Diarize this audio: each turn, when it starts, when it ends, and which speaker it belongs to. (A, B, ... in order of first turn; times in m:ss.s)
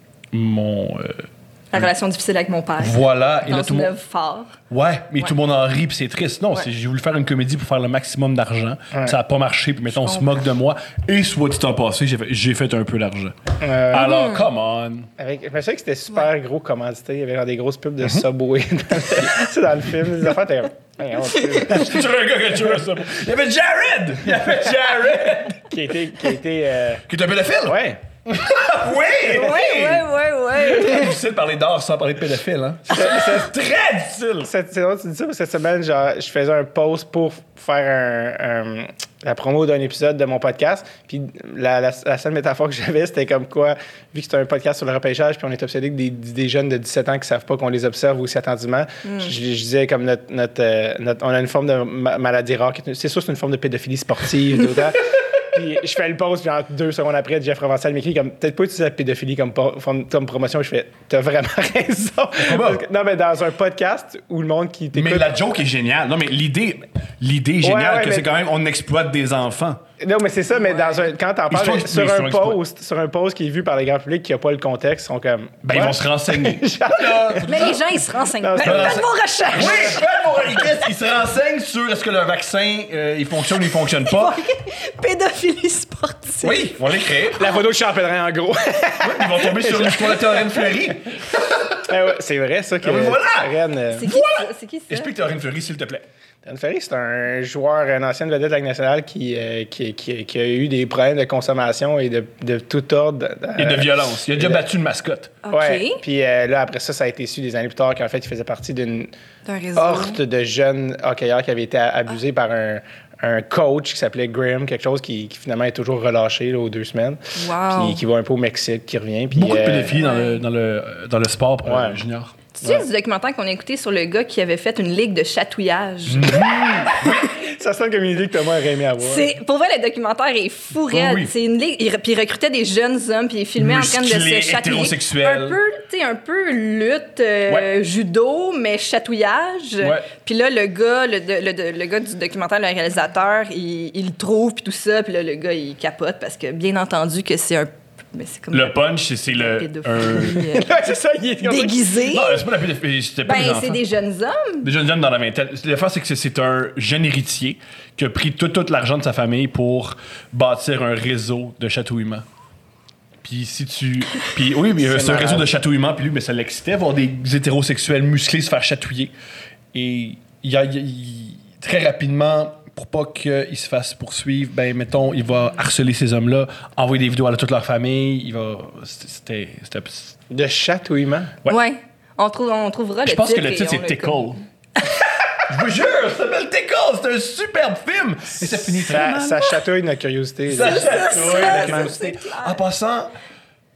0:00.3-0:01.9 A
0:01.7-0:04.6 B
0:02.8-0:03.9 A
0:04.7-0:13.4 A
0:10.0-0:10.4 B
0:13.6-0:14.3 C
0:13.9-0:15.1 A
0:13.9-0:14.4 B
0:15.2-0:22.1 C
0:21.5-0:25.6 A
0:25.3-0:27.0 C
0:27.1-0:34.5 A
0:27.6-0:28.0 C
0:29.3-0:31.2 B
0:32.9-0:33.5 C
0:34.4-1:05.4 C
0:49.0-0:49.3 B
1:02.4-1:02.8 A
1:04.9-1:09.8 A
1:07.6-1:08.3 C
1:10.0-1:20.7 C
1:10.5-1:11.1 B
1:11.5-1:12.6 A
1:15.6-1:17.8 A
1:17.4-1:20.0 B
1:18.6-1:24.4 A
1:24.0-1:26.9 B
1:26.4-1:27.4 A
1:27.3-1:30.7 C
1:29.0-1:31.9 A
1:31.8-1:34.1 C
1:32.8-1:36.0 A
1:33.9-1:35.1 B
1:36.4-1:44.6 C
1:43.6-1:45.4 A
1:45.4-1:46.0 B
1:45.5-1:49.1 C
1:49.5-1:50.2 B
1:49.8-2:00.0 C
1:57.4-1:58.0 B
1:59.3-2:02.3 A
1:59.9-2:00.4 B
2:01.6-2:02.0 C
2:02.6-2:06.7 B
2:06.1-2:07.3 A
2:07.0-2:09.3 C
2:09.0-2:30.8 B
2:10.9-2:11.3 A
2:13.6-2:15.6 A
2:19.8-2:20.1 A
2:28.5-2:30.5 A
2:30.4-2:31.8 C
2:31.4-2:32.5 B
2:32.0-2:33.8 A
2:33.2-2:34.7 B
2:34.6-2:42.2 A
2:43.2-2:49.1 A
2:44.8-2:45.5 C
2:49.7-3:00.2 A
3:00.3-3:01.4 C
3:01.5-3:04.3 B
3:03.0-3:04.4 A
3:05.4-3:09.6 A
3:08.4-3:12.0 C
3:10.5-3:13.1 A
3:10.6-3:12.6 B